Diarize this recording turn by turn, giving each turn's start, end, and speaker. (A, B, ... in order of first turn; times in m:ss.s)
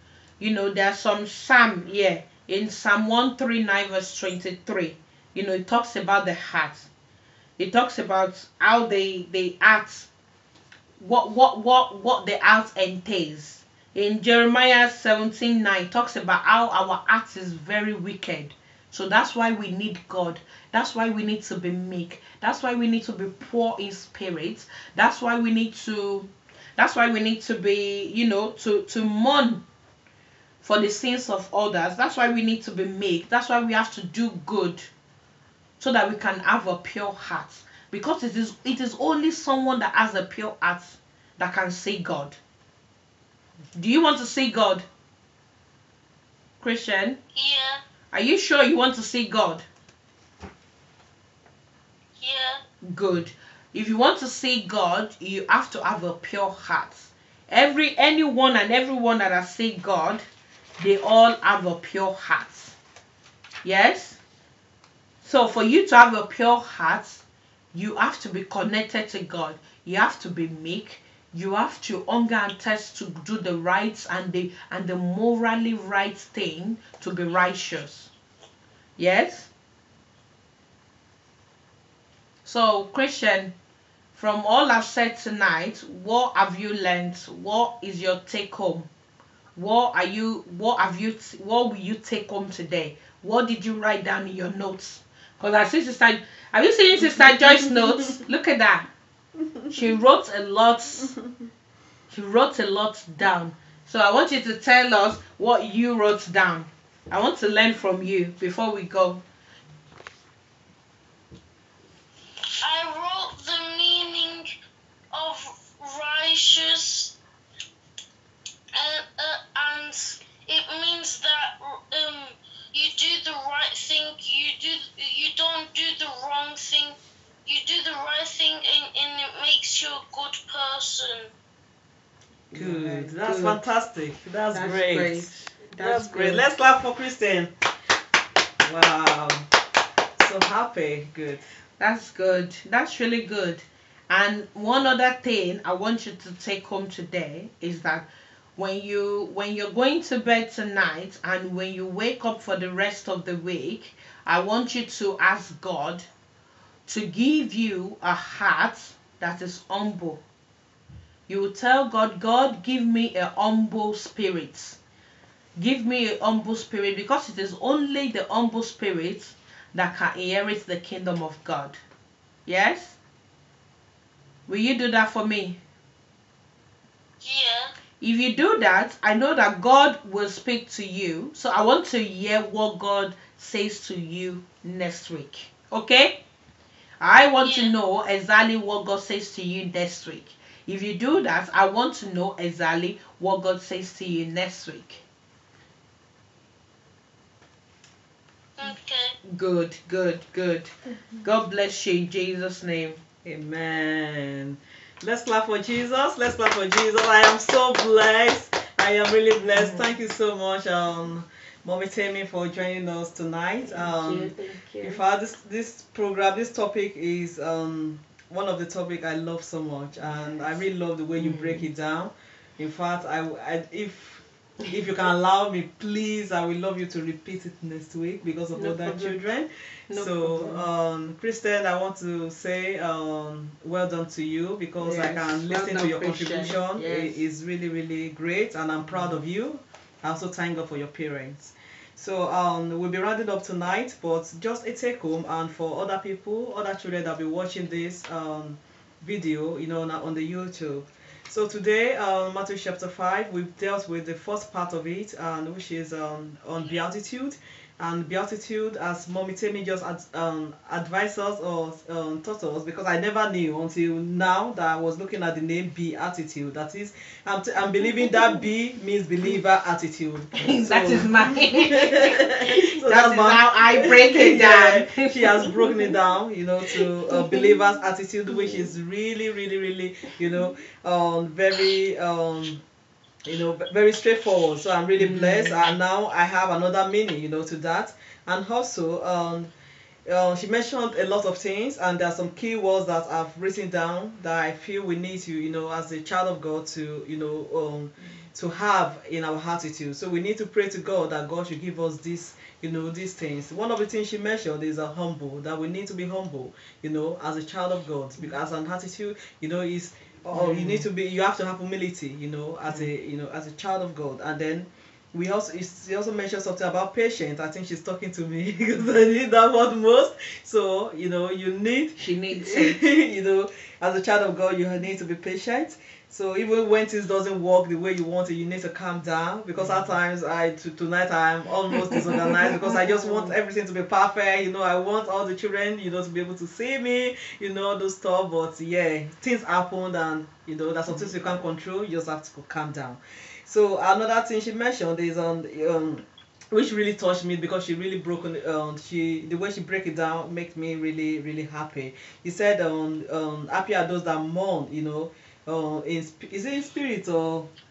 0:00.4-0:06.9 A
0:07.6-0:10.1 A
0:11.0-0:29.6 A
0:30.6-0:34.9 A
0:35.8-0:42.4 A
0:43.7-0:44.8 A
0:46.6-0:47.2 A
0:47.3-0:47.8 B
0:48.1-0:49.7 A
0:52.2-0:52.6 B
0:52.8-1:00.2 A
1:00.8-1:02.8 A
1:03.6-1:04.2 A
1:05.2-1:18.1 A
1:19.0-1:19.5 A
1:22.4-1:23.5 A
1:24.1-1:28.9 A
1:29.5-1:38.9 A
1:39.7-1:41.2 A
1:42.1-1:49.2 A
1:52.6-1:54.5 B
1:55.1-1:57.1 B
1:58.7-2:11.3 B
2:12.5-2:13.6 A
2:12.5-2:17.5 C
2:14.5-2:16.4 A
2:18.6-2:19.5 C
2:20.2-2:21.4 C
2:21.8-2:36.1 A
2:36.9-2:40.2 A
2:41.3-2:44.8 A
2:45.6-2:51.8 A
2:52.4-2:53.0 A
2:54.5-2:55.6 A
2:57.2-2:57.7 B
2:58.0-3:06.2 A
3:07.0-3:15.0 A
3:07.4-3:07.7 B
3:18.6-3:19.2 B
3:19.2-3:23.0 A
3:23.2-4:42.6 C
3:29.5-3:29.8 A
3:33.7-3:35.0 A
3:41.2-3:41.7 A
3:48.5-3:49.2 A
3:49.9-3:50.7 A
3:54.8-3:57.2 A
4:30.4-4:35.9 A
4:36.7-4:37.6 A
4:38.4-4:38.7 A
4:43.2-4:49.5 C
4:45.0-4:45.7 A
4:50.1-5:57.5 C
5:10.3-5:10.9 A
5:22.0-5:22.8 A
5:29.6-5:29.9 A
5:32.0-5:33.3 A